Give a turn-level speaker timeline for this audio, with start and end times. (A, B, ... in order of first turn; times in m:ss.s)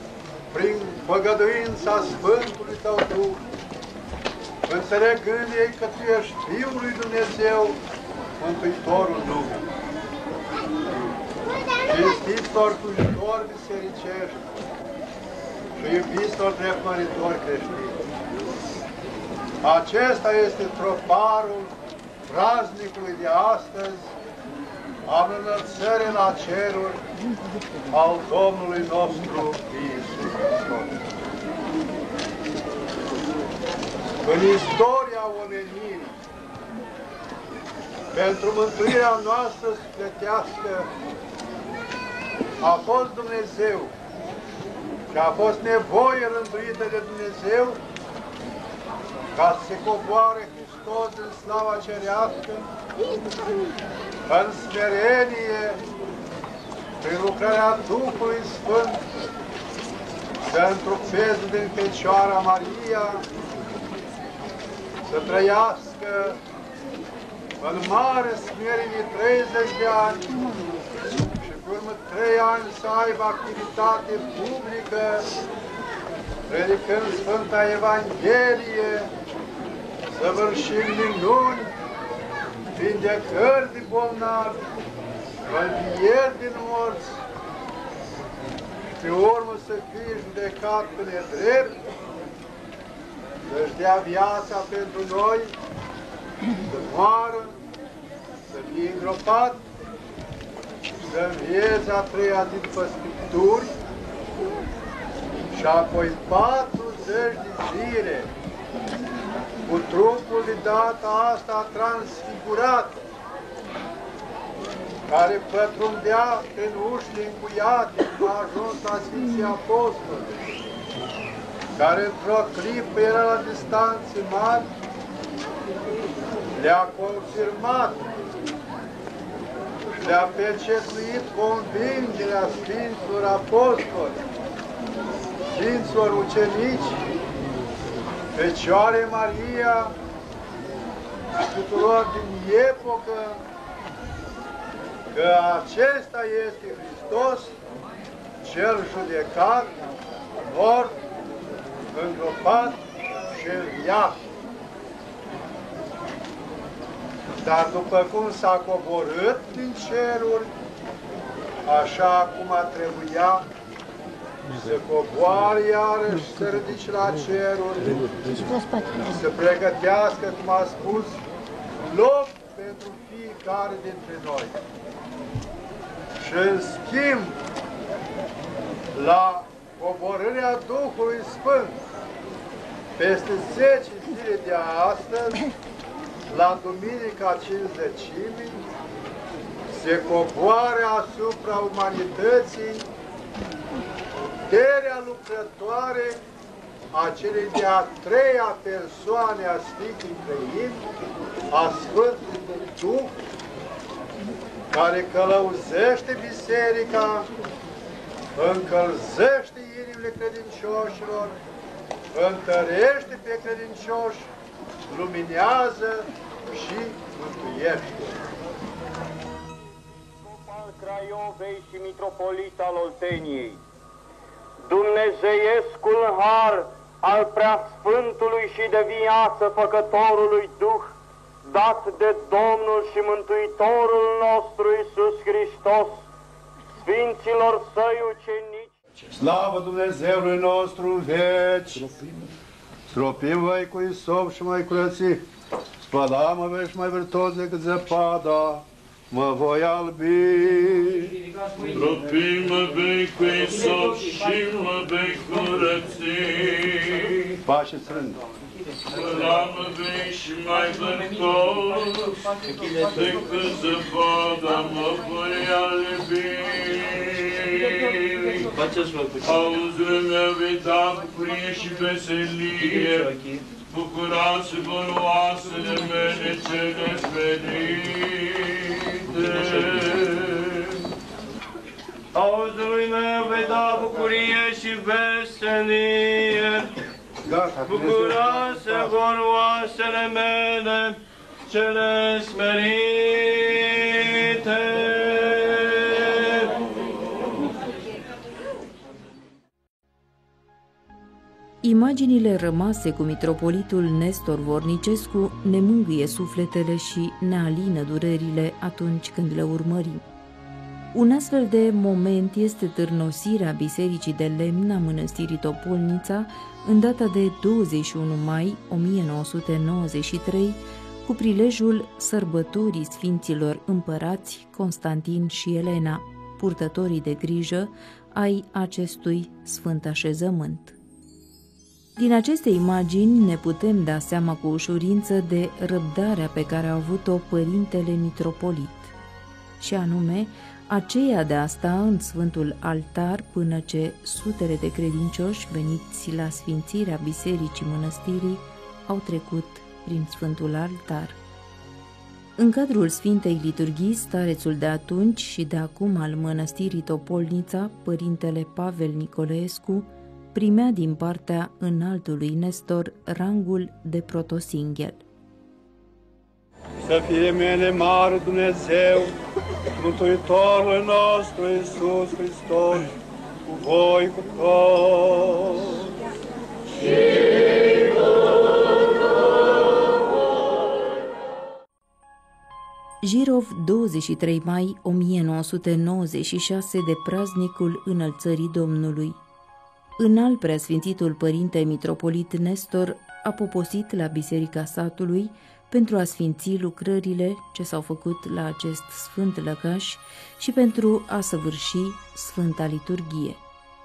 0:00.5-0:03.4 A
0:04.7-0:07.8 A
0:08.4-0:09.7 A
0:11.8-0:14.6 A
0:15.8-0:18.0 A
0:19.6-0:21.7 A
0:22.3-0:24.1 A
0:25.1-0:27.0 A
0:27.9-0:31.0 A
0:34.2-0:36.2 A
0:38.1-0:40.9 A
0:42.6-0:43.9 A
0:45.1-0:47.8 A
0:49.3-0:52.7 A
0:54.3-0:55.8 A
0:57.0-0:59.0 A
1:00.5-1:03.2 A
1:05.1-1:06.4 A
1:07.6-1:10.3 A
1:11.4-1:15.3 A
1:16.5-1:19.1 A
1:20.1-1:21.7 A
1:22.7-1:24.6 A
1:25.4-1:27.2 A
1:29.0-1:31.9 A
1:33.4-1:35.6 A
1:36.6-1:37.6 A
1:38.5-1:39.7 A
1:41.0-1:43.8 A
1:45.5-1:48.3 A
1:49.6-1:53.0 A
1:55.1-2:00.5 A
2:01.8-2:04.7 A
2:06.5-2:08.1 A
2:10.0-2:14.2 A
2:15.4-2:17.0 A
2:18.3-2:20.0 A
2:21.4-2:23.4 A
2:25.1-2:27.6 A
2:28.4-2:29.8 A
2:30.4-2:31.0 A
2:31.9-2:34.2 A
2:37.3-2:40.5 A
2:41.6-2:43.5 A
2:44.5-2:51.2 A
2:51.8-2:54.6 A
2:56.2-2:57.4 A
2:58.9-3:01.8 A
3:03.0-3:05.4 A
3:06.3-3:08.6 A
3:09.7-3:12.9 A
3:14.5-3:16.2 A
3:16.9-3:20.8 A
3:21.5-3:23.2 A
3:24.7-3:27.3 A
3:28.4-3:31.4 A
3:32.1-3:34.3 A
3:34.9-3:38.2 A
3:40.2-3:43.6 B
3:44.7-3:56.1 B
3:56.8-3:58.7 B
3:59.2-4:02.0 A
4:02.9-4:05.2 A
4:05.8-4:11.1 A
4:11.7-4:17.4 C
4:17.4-4:18.2 A
4:18.9-4:22.2 C
4:22.8-4:28.5 C
4:28.6-4:29.2 D
4:29.2-4:33.1 C
4:32.7-4:33.4 D
4:33.7-4:40.8 C
4:42.1-4:46.8 D
4:47.2-4:48.9 A
4:47.7-4:56.6 D
5:01.6-5:10.1 E
5:10.9-5:30.8 E
5:32.0-5:39.0 E
5:39.6-5:51.2 E
5:52.4-6:05.0 E
6:06.8-6:09.2 A
6:09.8-6:12.9 A
6:13.5-6:15.9 A
6:16.9-6:17.9 A
6:23.0-6:29.2 E
6:30.0-6:43.4 E